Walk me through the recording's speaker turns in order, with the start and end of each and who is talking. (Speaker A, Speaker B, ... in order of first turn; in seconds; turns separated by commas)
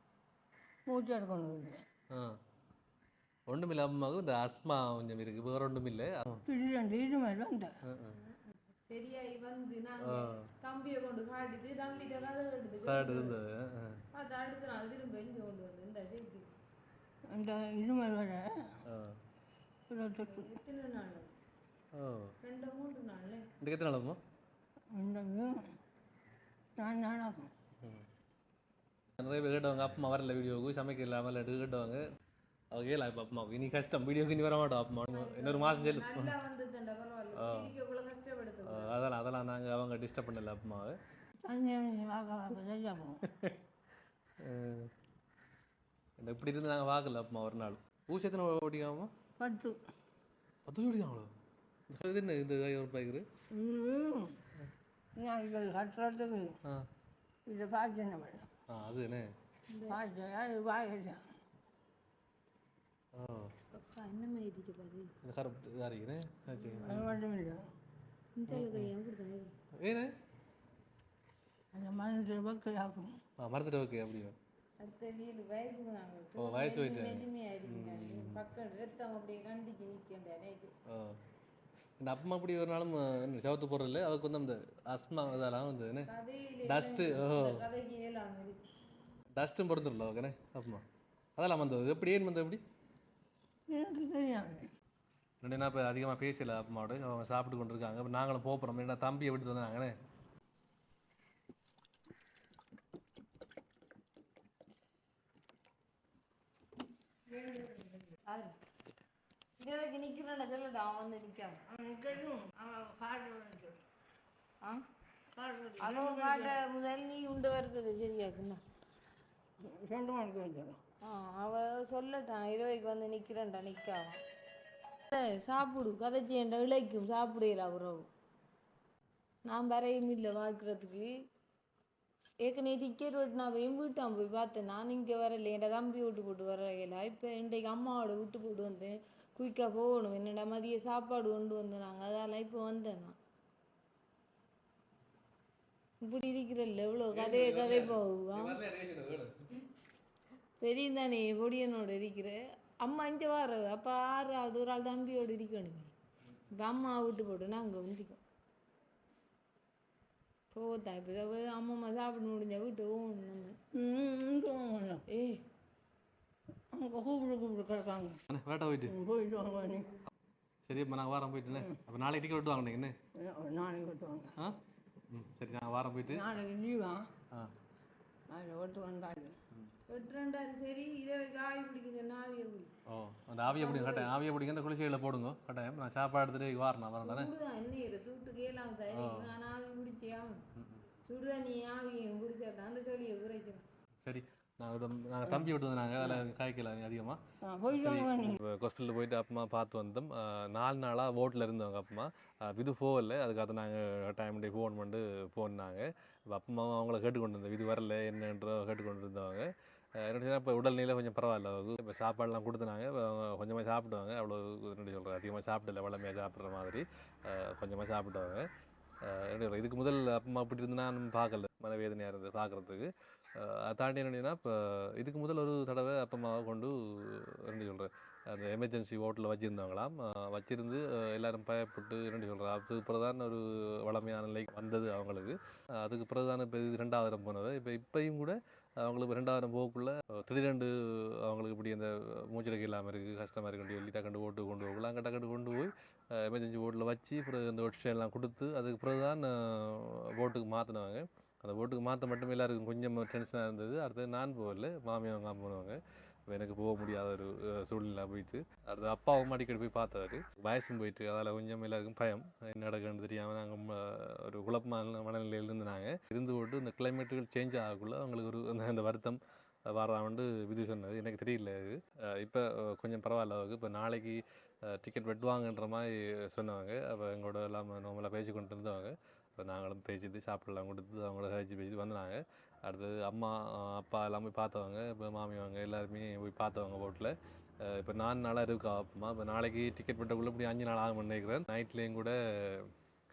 Speaker A: 0.9-1.8, Speaker B: 2.1-2.4, Speaker B: 3.5-6.5, Speaker A: 6.5-7.7, Speaker B: 7.9-8.2, Speaker C: 8.2-13.4, Speaker B: 10.0-10.5, Speaker B: 12.8-14.0, Speaker C: 14.1-16.5, Speaker A: 17.3-18.7, Speaker B: 18.9-19.2, Speaker A: 19.9-20.5, Speaker C: 20.2-21.3, Speaker B: 21.9-22.3, Speaker C: 22.4-23.5, Speaker B: 23.6-24.2, Speaker A: 24.9-25.7, Speaker A: 26.8-27.5, Speaker B: 29.2-32.0, Speaker B: 32.7-36.4, Speaker C: 35.1-39.0, Speaker B: 37.4-37.7, Speaker B: 38.6-41.0, Speaker A: 41.4-43.2, Speaker B: 43.2-43.6, Speaker B: 44.4-44.9, Speaker B: 46.2-49.1, Speaker A: 49.4-49.8, Speaker B: 50.7-51.3, Speaker B: 51.9-53.2, Speaker A: 53.5-54.4, Speaker A: 55.2-56.6, Speaker A: 57.5-58.5, Speaker B: 58.7-59.3, Speaker C: 59.7-60.0, Speaker A: 59.9-61.2, Speaker B: 63.1-63.5, Speaker C: 63.7-65.1, Speaker B: 65.2-67.2, Speaker A: 66.8-67.6, Speaker C: 68.4-69.5, Speaker B: 68.5-68.9, Speaker B: 69.8-70.1, Speaker A: 71.7-73.1, Speaker B: 73.4-74.4, Speaker C: 74.8-80.7, Speaker B: 76.4-78.4, Speaker B: 80.9-81.2, Speaker B: 82.0-86.1, Speaker C: 86.1-88.7, Speaker B: 86.6-87.6, Speaker B: 89.4-90.8, Speaker B: 91.4-92.6, Speaker A: 93.7-94.7, Speaker B: 95.4-100.0, Speaker A: 107.3-108.1, Speaker C: 108.3-108.6, Speaker C: 109.6-111.6, Speaker A: 111.7-113.8, Speaker A: 115.3-116.6, Speaker C: 115.8-118.6, Speaker A: 119.6-120.8, Speaker C: 121.0-124.2, Speaker C: 125.1-128.1, Speaker C: 129.4-131.1, Speaker C: 132.4-143.2, Speaker C: 146.0-148.6, Speaker B: 147.1-149.5, Speaker C: 150.6-155.9, Speaker C: 156.5-158.2, Speaker C: 160.5-163.6, Speaker A: 163.7-165.0, Speaker C: 165.1-165.4, Speaker A: 166.7-168.2, Speaker B: 168.3-169.0, Speaker A: 168.9-169.9, Speaker B: 170.7-172.9, Speaker A: 173.2-174.3, Speaker B: 175.1-176.3, Speaker A: 176.1-177.1, Speaker A: 178.3-179.3, Speaker C: 179.9-182.7, Speaker B: 182.9-187.3, Speaker C: 183.5-184.1, Speaker C: 187.0-190.4, Speaker B: 188.9-189.3, Speaker B: 190.6-190.9, Speaker C: 191.1-193.7, Speaker B: 194.0-218.5, Speaker A: 197.4-198.4, Speaker B: 219.0-292.7